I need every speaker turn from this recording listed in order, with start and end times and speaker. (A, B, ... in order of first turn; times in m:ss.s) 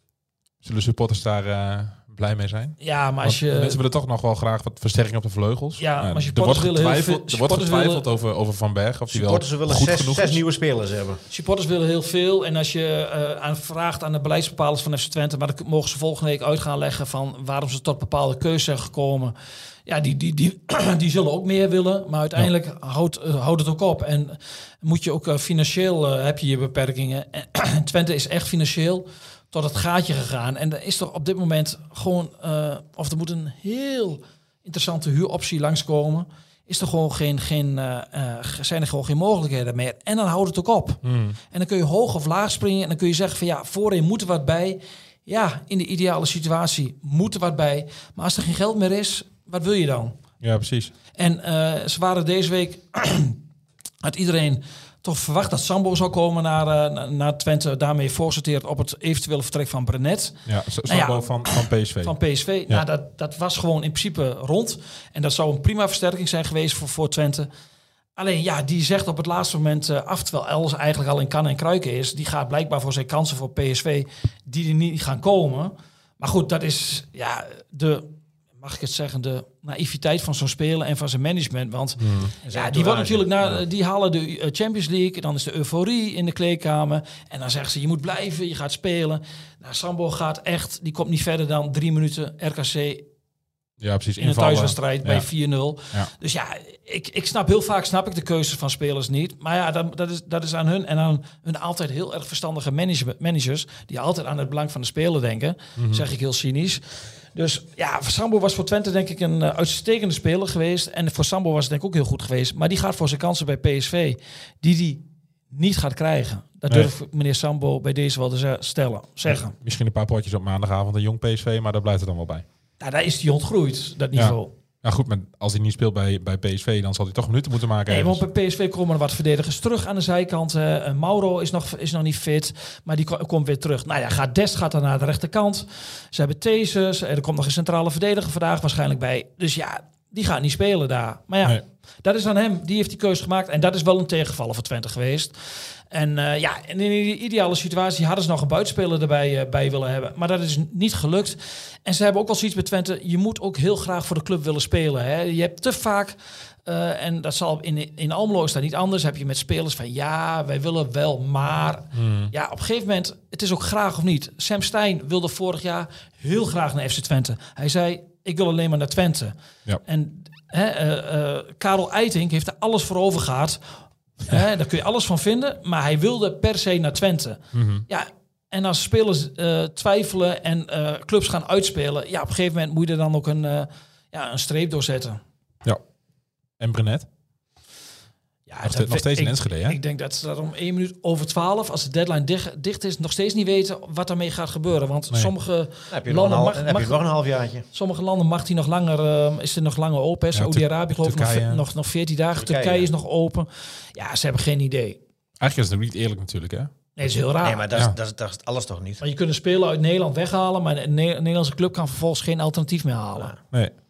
0:00.6-0:10.4 A
0:02.8-0:03.8 B
0:05.8-0:08.0 B
0:09.1-0:11.2 C
0:11.3-0:19.4 B
0:19.9-0:50.2 B
0:41.0-0:41.4 A
0:50.4-0:50.9 A
0:51.2-0:53.4 B
0:54.0-1:07.5 B
1:00.5-1:02.2 A
1:08.2-1:33.0 B
1:22.0-1:22.3 A
1:22.4-1:23.6 C
1:33.8-1:35.2 A
1:34.2-1:59.5 B
1:45.8-1:46.0 A
1:59.3-2:02.4 A
2:02.8-2:04.5 B
2:04.1-2:08.2 A
2:07.9-2:25.3 B
2:25.9-2:53.6 B
2:41.9-2:42.3 A
2:54.2-3:05.2 B
2:57.5-2:57.8 A
3:06.6-3:07.0 A
3:08.5-3:17.0 B
3:08.6-3:09.8 A
3:15.9-3:17.7 C
3:17.7-3:25.0 B
3:20.3-3:21.6 A
3:22.3-3:22.9 C
3:25.4-3:26.7 A
3:27.0-3:27.7 B
3:27.4-3:29.0 C
3:29.0-3:33.3 B